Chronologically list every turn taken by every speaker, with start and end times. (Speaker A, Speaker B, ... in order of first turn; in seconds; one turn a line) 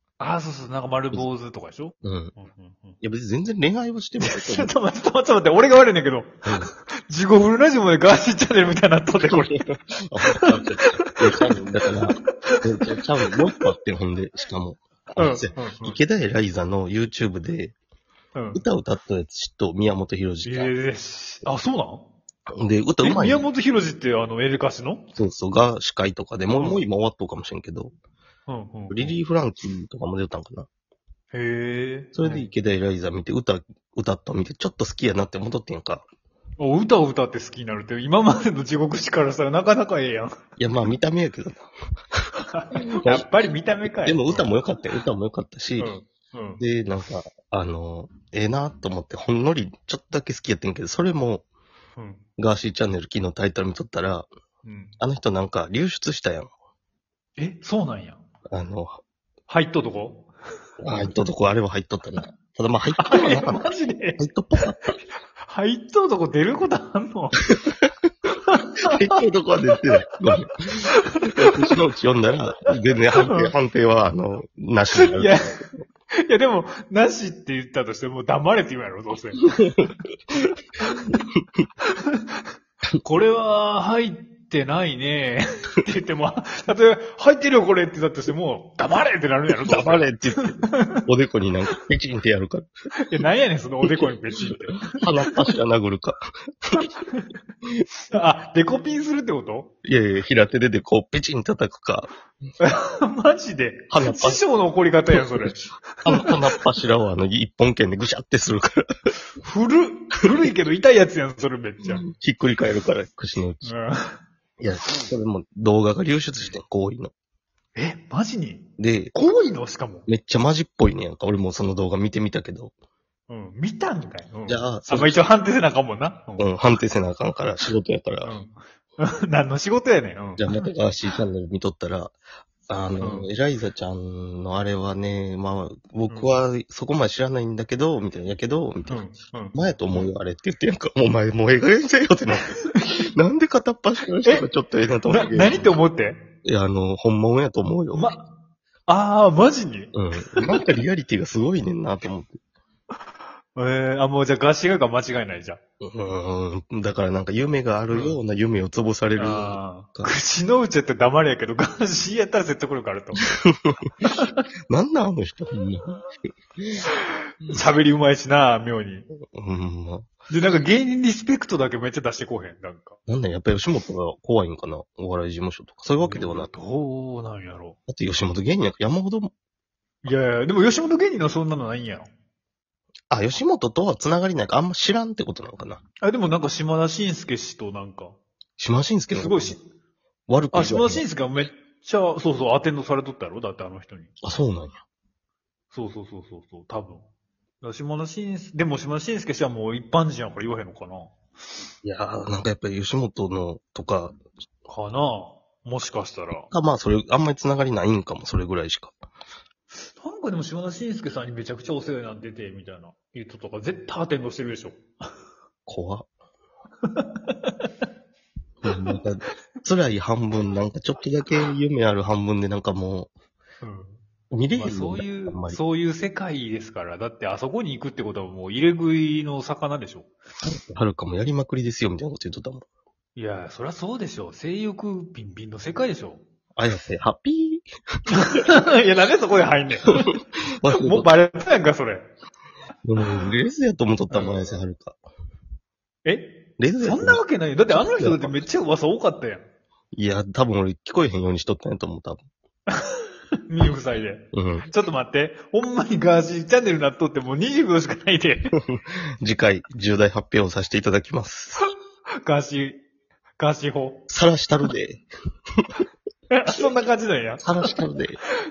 Speaker A: 0.2-3.0
Speaker B: 2.0-2.3
Speaker B: 3.0-4.7
Speaker A: 4.2-9.5
Speaker B: 6.4-6.7
Speaker B: 9.1-17.8
Speaker A: 10.3-11.4
Speaker A: 15.2-16.0
Speaker A: 18.3-18.6
Speaker B: 18.5-20.7
Speaker A: 20.4-22.1
Speaker B: 22.6-23.4
Speaker A: 23.0-25.1
Speaker B: 25.2-27.9
Speaker A: 26.5-26.8
Speaker A: 28.5-29.2
Speaker B: 28.9-30.7
Speaker A: 31.3-32.5
Speaker B: 32.1-36.0
Speaker A: 36.6-40.3
Speaker B: 40.6-41.7
Speaker A: 42.5-44.6
Speaker B: 43.0-43.4
Speaker B: 43.9-45.9
Speaker A: 45.8-46.6
Speaker B: 46.6-51.4
Speaker A: 52.0-52.2
Speaker B: 52.4-54.3
Speaker A: 54.6-54.9
Speaker B: 55.0-56.5
Speaker A: 57.4-58.2
Speaker B: 58.5-59.0
Speaker A: 59.5-60.3
Speaker B: 60.8-64.9
Speaker A: 63.0-64.2
Speaker A: 65.5-67.4
Speaker A: 68.5-69.0
Speaker B: 68.9-75.6
Speaker A: 70.9-71.5
Speaker A: 73.1-73.5
Speaker A: 74.9-75.6
Speaker A: 76.2-79.9
Speaker A: 83.0-91.0
Speaker B: 89.6-92.7
Speaker A: 93.0-95.3
Speaker B: 93.8-96.9
Speaker A: 98.1-99.7
Speaker B: 99.8-102.1
Speaker A: 102.6-106.4
Speaker B: 103.9-104.4
Speaker B: 105.1-105.5
Speaker B: 106.0-108.9
Speaker A: 109.4-112.0
Speaker B: 111.8-113.7
Speaker A: 113.6-114.1
Speaker B: 114.6-117.1
Speaker A: 116.3-116.5
Speaker A: 117.7-120.1
Speaker B: 118.8-119.1
Speaker B: 120.1-122.7
Speaker A: 123.3-126.5
Speaker B: 124.5-125.2
Speaker B: 126.4-128.3
Speaker A: 128.2-130.5
Speaker B: 130.4-132.2
Speaker B: 132.7-142.5
Speaker A: 133.0-133.3
Speaker A: 136.1-136.3
Speaker A: 138.9-139.6
Speaker B: 143.1-145.7
Speaker A: 145.1-146.3
Speaker B: 146.4-148.1
Speaker A: 147.9-148.2
Speaker A: 148.9-149.9
Speaker B: 149.9-152.3
Speaker A: 153.6-155.6
Speaker B: 155.8-160.1
Speaker A: 157.9-158.2
Speaker A: 159.2-163.2
Speaker A: 164.0-164.4
Speaker B: 164.7-166.0
Speaker B: 166.6-166.9
Speaker A: 167.4-169.1
Speaker B: 167.5-167.8
Speaker B: 169.3-170.1
Speaker A: 170.3-173.0
Speaker B: 173.1-176.5
Speaker A: 176.0-177.8
Speaker B: 177.9-179.3
Speaker A: 180.0-182.1
Speaker B: 183.1-185.8
Speaker A: 186.0-188.2
Speaker B: 188.6-189.6
Speaker A: 189.1-189.6
Speaker B: 190.3-191.1
Speaker A: 190.5-194.1
Speaker B: 194.2-194.8
Speaker A: 195.7-197.1
Speaker A: 197.6-201.1
Speaker B: 201.8-204.2
Speaker A: 204.7-206.5
Speaker B: 206.5-208.9
Speaker A: 209.8-214.8
Speaker B: 215.7-216.1
Speaker A: 216.8-217.5
Speaker B: 218.6-223.1
Speaker A: 223.6-224.0
Speaker B: 224.3-225.6
Speaker A: 224.5-230.1
Speaker B: 230.4-232.6
Speaker A: 233.2-236.2
Speaker B: 236.6-237.7
Speaker A: 238.1-240.2
Speaker B: 240.5-241.1
Speaker A: 240.7-242.1
Speaker B: 242.8-245.0
Speaker A: 244.1-244.5
Speaker A: 246.0-249.4
Speaker B: 246.6-248.4
Speaker B: 249.9-252.2
Speaker A: 252.8-258.6
Speaker B: 254.3-254.7
Speaker B: 258.8-261.6
Speaker A: 262.2-262.8
Speaker A: 263.4-264.1
Speaker B: 264.1-265.0
Speaker A: 266.3-267.7
Speaker B: 267.4-268.2